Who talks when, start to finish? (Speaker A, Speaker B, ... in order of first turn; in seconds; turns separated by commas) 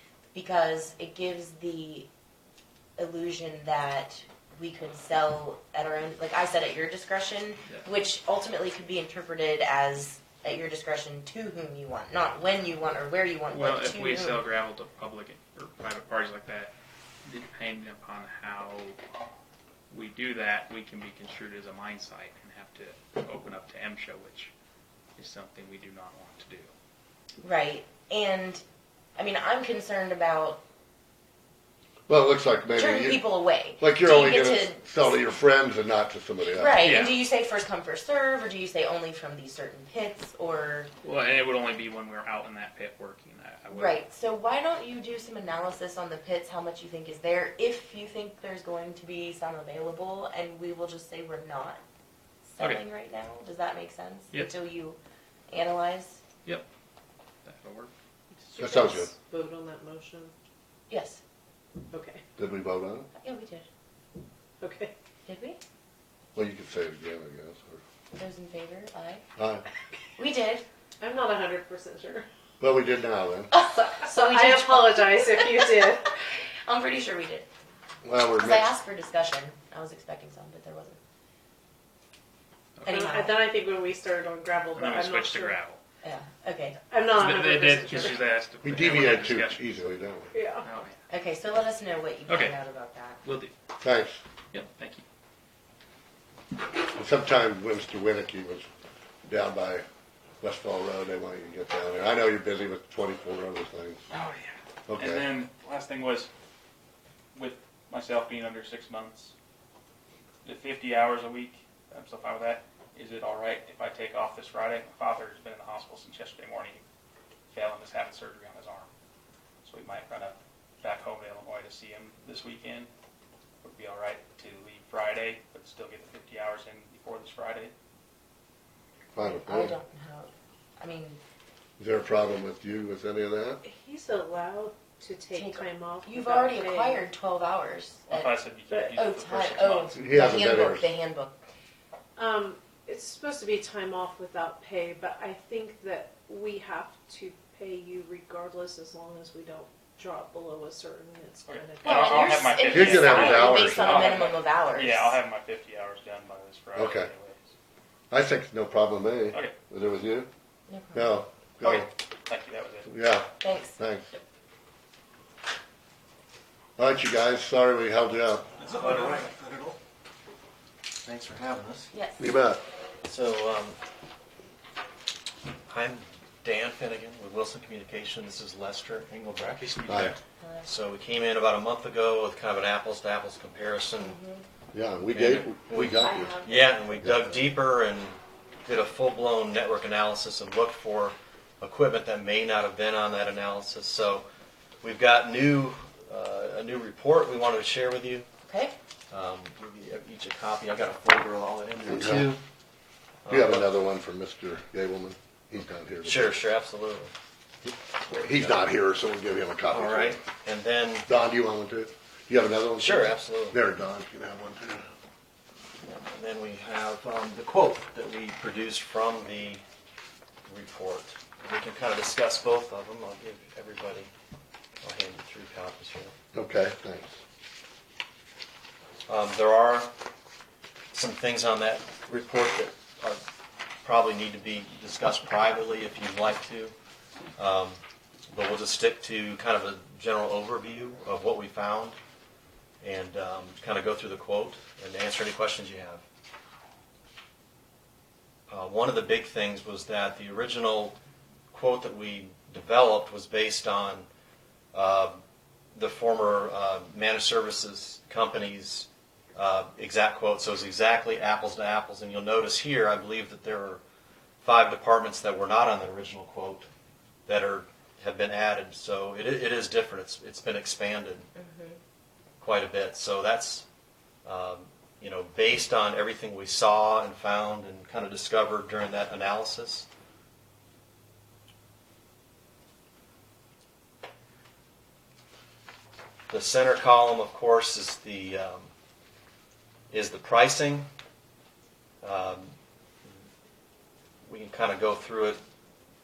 Speaker A: 0.3-2.1, Speaker A: 3.0-14.4, Speaker B: 13.5-16.7, Speaker B: 17.2-19.0, Speaker B: 19.9-24.5, Speaker B: 25.2-26.7, Speaker A: 27.4-28.6, Speaker A: 29.1-30.6, Speaker C: 32.1-33.3, Speaker A: 32.7-35.2, Speaker C: 33.8-36.9, Speaker A: 36.5-40.9, Speaker B: 36.8-37.2, Speaker B: 41.0-44.0, Speaker A: 43.7-51.8, Speaker A: 52.4-55.0, Speaker A: 55.5-56.2, Speaker B: 57.4-57.9, Speaker D: 58.4-60.3, Speaker C: 58.6-59.1, Speaker A: 60.9-61.2, Speaker D: 61.9-62.2, Speaker C: 62.4-63.1, Speaker A: 63.1-63.6, Speaker D: 64.6-64.9, Speaker A: 65.2-65.6, Speaker C: 66.3-67.8, Speaker A: 68.1-69.2, Speaker C: 69.4-69.6, Speaker A: 70.2-70.6, Speaker D: 71.0-72.3, Speaker C: 72.6-73.5, Speaker A: 73.5-77.5, Speaker D: 74.0-76.0, Speaker C: 78.0-78.7, Speaker A: 78.4-81.0, Speaker A: 82.8-83.4, Speaker D: 82.9-85.6, Speaker B: 84.7-85.8, Speaker A: 86.0-86.8, Speaker D: 86.9-88.3, Speaker B: 87.1-89.9, Speaker C: 88.6-90.3, Speaker D: 90.3-90.7, Speaker B: 90.6-91.0, Speaker A: 91.1-93.2, Speaker B: 92.3-92.5, Speaker B: 93.2-93.5, Speaker C: 93.8-94.2, Speaker B: 94.5-95.0, Speaker C: 96.9-98.7, Speaker C: 99.3-99.8, Speaker C: 100.4-104.0, Speaker B: 104.1-106.3, Speaker C: 104.9-105.3, Speaker B: 107.3-109.3, Speaker B: 110.4-116.8, Speaker B: 117.5-118.9, Speaker B: 119.6-122.9, Speaker B: 123.6-127.7, Speaker C: 129.1-129.7, Speaker A: 129.2-131.2, Speaker C: 131.8-133.6, Speaker D: 133.6-137.1, Speaker A: 135.3-141.3, Speaker B: 138.1-140.0, Speaker C: 139.9-140.9, Speaker D: 142.2-152.4, Speaker B: 151.4-157.5, Speaker A: 151.8-155.2, Speaker C: 152.7-154.2, Speaker C: 156.7-157.1, Speaker C: 158.1-160.3, Speaker A: 160.7-161.2, Speaker C: 160.9-161.9, Speaker B: 161.6-162.9, Speaker C: 162.9-164.1, Speaker A: 163.4-163.8, Speaker C: 166.8-168.4, Speaker E: 168.6-169.8, Speaker E: 171.0-171.9, Speaker A: 171.9-172.3, Speaker C: 172.2-172.6, Speaker E: 173.0-173.8, Speaker E: 175.7-179.8, Speaker B: 179.6-180.2, Speaker C: 179.9-180.1, Speaker A: 180.4-180.7, Speaker E: 180.6-184.2, Speaker A: 184.0-184.4, Speaker C: 184.7-186.4, Speaker E: 185.1-194.2, Speaker A: 186.0-187.2, Speaker E: 194.8-198.3, Speaker A: 198.5-198.7, Speaker E: 199.1-202.4, Speaker C: 201.9-202.3, Speaker E: 203.2-203.7, Speaker C: 203.3-206.3, Speaker E: 206.0-207.1, Speaker C: 207.7-210.2, Speaker E: 208.1-208.6, Speaker E: 209.7-211.1, Speaker C: 211.1-214.9, Speaker E: 212.8-213.6, Speaker E: 215.8-219.6, Speaker E: 220.5-224.1, Speaker E: 224.8-226.1, Speaker C: 226.3-227.2, Speaker E: 229.1-229.9, Speaker E: 230.9-233.2, Speaker E: 233.8-236.7, Speaker E: 237.3-237.8, Speaker E: 238.3-241.9, Speaker E: 242.8-246.0, Speaker E: 248.5-250.9, Speaker E: 251.5-254.1, Speaker E: 254.7-255.2, Speaker E: 255.7-263.8, Speaker E: 264.4-266.7, Speaker E: 267.2-271.2, Speaker A: 271.4-271.8, Speaker E: 272.4-273.6, Speaker E: 274.2-279.9, Speaker E: 286.3-288.7, Speaker E: 289.9-290.9, Speaker E: 292.0-292.5, Speaker E: 294.2-295.4